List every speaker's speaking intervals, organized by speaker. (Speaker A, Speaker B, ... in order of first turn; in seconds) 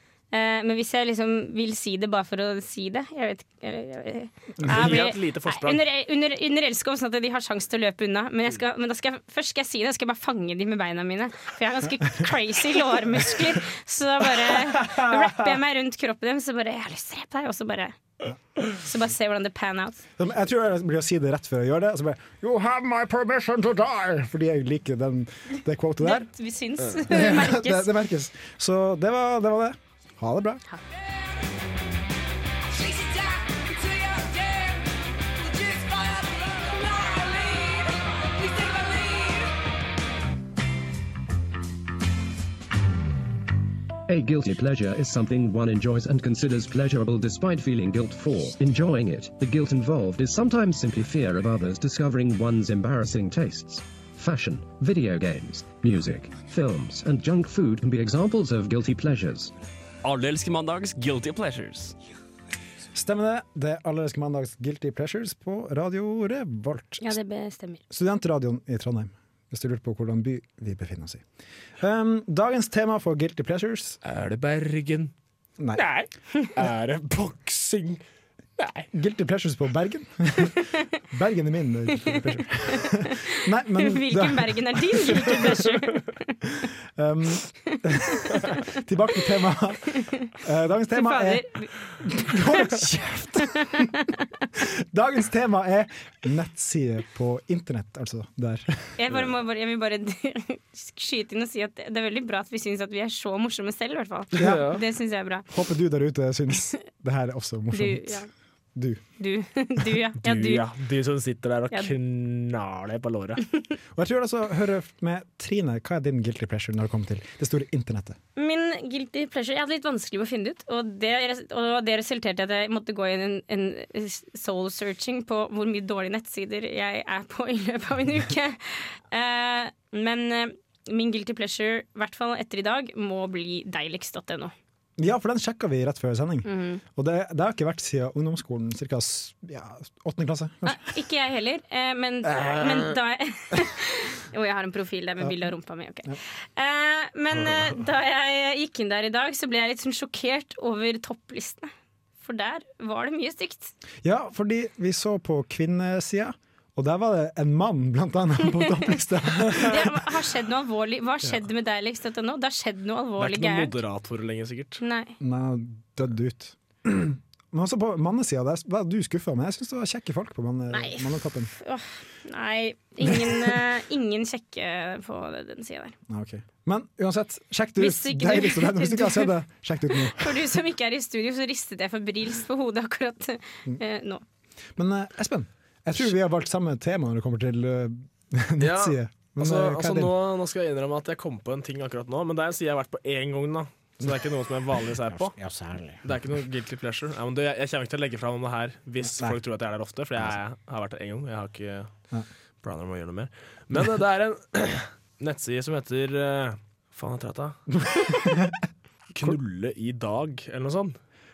Speaker A: 0.3-18.0, 18.6-20.0, 26.0-27.9, 67.0-67.8, 82.7-86.4, 90.9-91.7, 92.2-92.7, 99.0-105.5, 107.7-108.3, 109.2-110.7, 118.4-134.5, 136.4-136.8, 140.6-151.7, 152.2-153.7, 159.6-163.8, 164.8-165.1, 170.7-176.0, 177.8-179.3, 179.9-184.2
Speaker B: 4.7-5.8, 74.0-75.1, 75.7-78.0, 78.6-78.9, 104.3-104.8, 110.2-113.4, 163.2-164.8, 188.6-195.4, 196.0-201.9, 202.6-207.6, 209.1-211.0
Speaker C: 20.2-26.3, 27.0-30.6, 62.9-67.2, 67.9-71.2, 71.8-74.0, 78.9-85.8, 87.0-91.5, 92.0-93.9, 94.6-99.0, 104.4-104.8, 105.5-108.2, 108.8-109.0, 114.0-118.2, 135.0-140.9, 142.2-142.9, 154.0-160.1, 165.2-171.5, 173.1-173.5, 176.1-180.5, 184.8-190.2, 195.1-196.2, 199.0-199.4, 207.7-208.6
Speaker D: 35.9-37.8, 38.7-39.3, 60.0-61.9
Speaker E: 44.1-59.5